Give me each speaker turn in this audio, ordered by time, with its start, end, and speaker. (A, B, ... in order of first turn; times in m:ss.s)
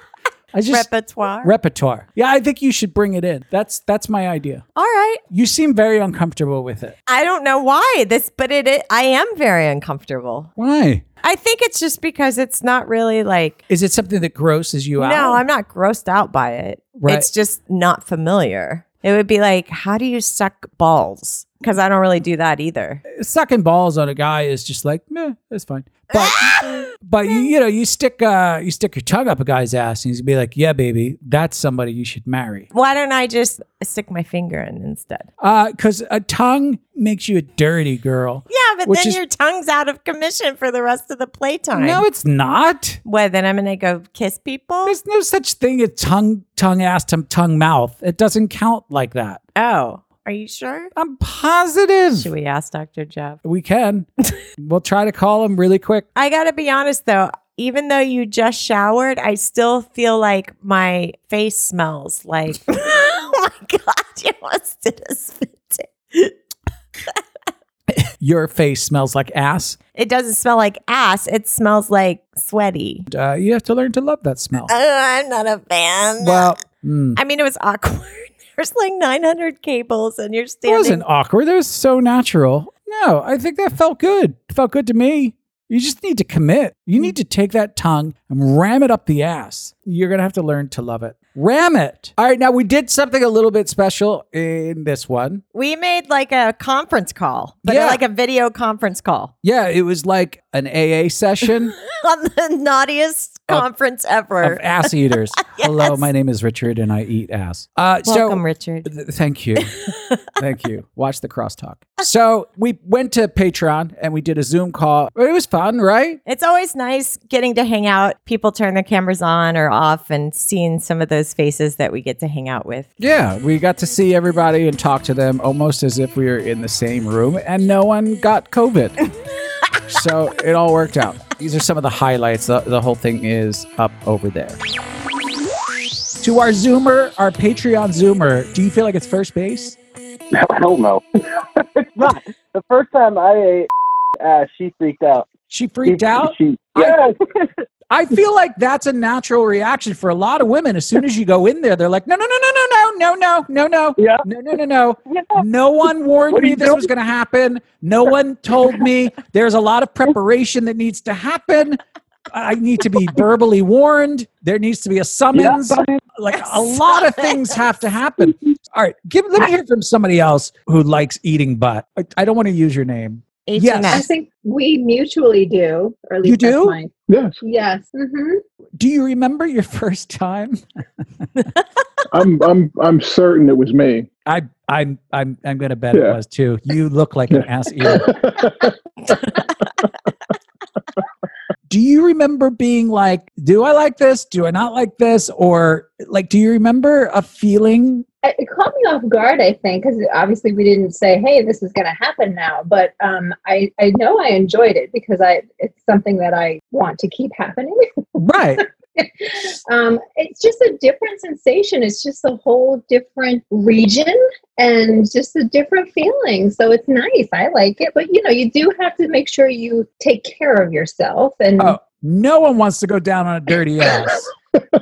0:00.5-0:00.9 A
0:00.7-0:01.5 B
0:01.4-0:04.6 A
0:04.8-0:05.2 B
0:05.3-0:07.0 A
0:07.1-0:10.5 B
0:10.6-0:11.0 A
0:11.2-0:13.6 B
0:13.7-0:15.4 A
0:15.0-0:23.0 B
0:17.0-0:17.3 A
0:23.1-0:32.7 A
0:26.2-0:26.8 B
0:32.7-0:35.3 B
0:35.4-0:39.2 A
0:38.5-0:42.0 B
0:41.7-0:43.0 A
0:43.0-0:45.0 B
0:44.8-0:49.4 A
0:49.6-0:50.9 B
0:51.0-0:52.3 A
0:52.2-0:53.4 B
0:53.4-0:56.1 A
0:56.1-1:06.3 B
1:08.0-1:09.8 A
1:10.0-1:13.1 B
1:13.1-1:14.7 A
1:14.7-1:16.5 B
1:16.2-1:17.2 A
1:17.2-1:21.0 B
1:20.6-1:35.4 A
1:35.5-1:39.3 B
1:37.6-1:38.0 A
1:39.4-1:41.7 A
1:41.9-1:46.1 B
1:44.4-1:49.8 A
1:48.0-1:48.9 B
1:50.4-1:56.2 A
1:56.2-2:02.9 B
2:03.0-2:09.1 A
2:09.9-2:14.6 A
2:16.2-2:19.8 A
2:20.3-2:25.3 C
2:25.5-2:27.0 A
2:25.8-2:27.4 C
2:27.9-2:54.0 A
2:34.0-2:34.2 C
2:35.1-2:35.4 C
2:36.3-2:36.9 C
2:45.3-2:46.0 C
2:53.4-2:54.0 B
2:53.9-2:58.4 D
2:56.2-2:56.8 A
2:57.1-2:57.4 E
2:58.8-3:00.6 A
3:02.1-3:04.1 E
3:04.2-3:08.1 A
3:07.9-3:09.4 E
3:11.7-3:18.0 A
3:18.2-3:27.9 D
3:28.2-3:28.6 A
3:28.6-3:41.8 D
3:41.6-3:44.3 A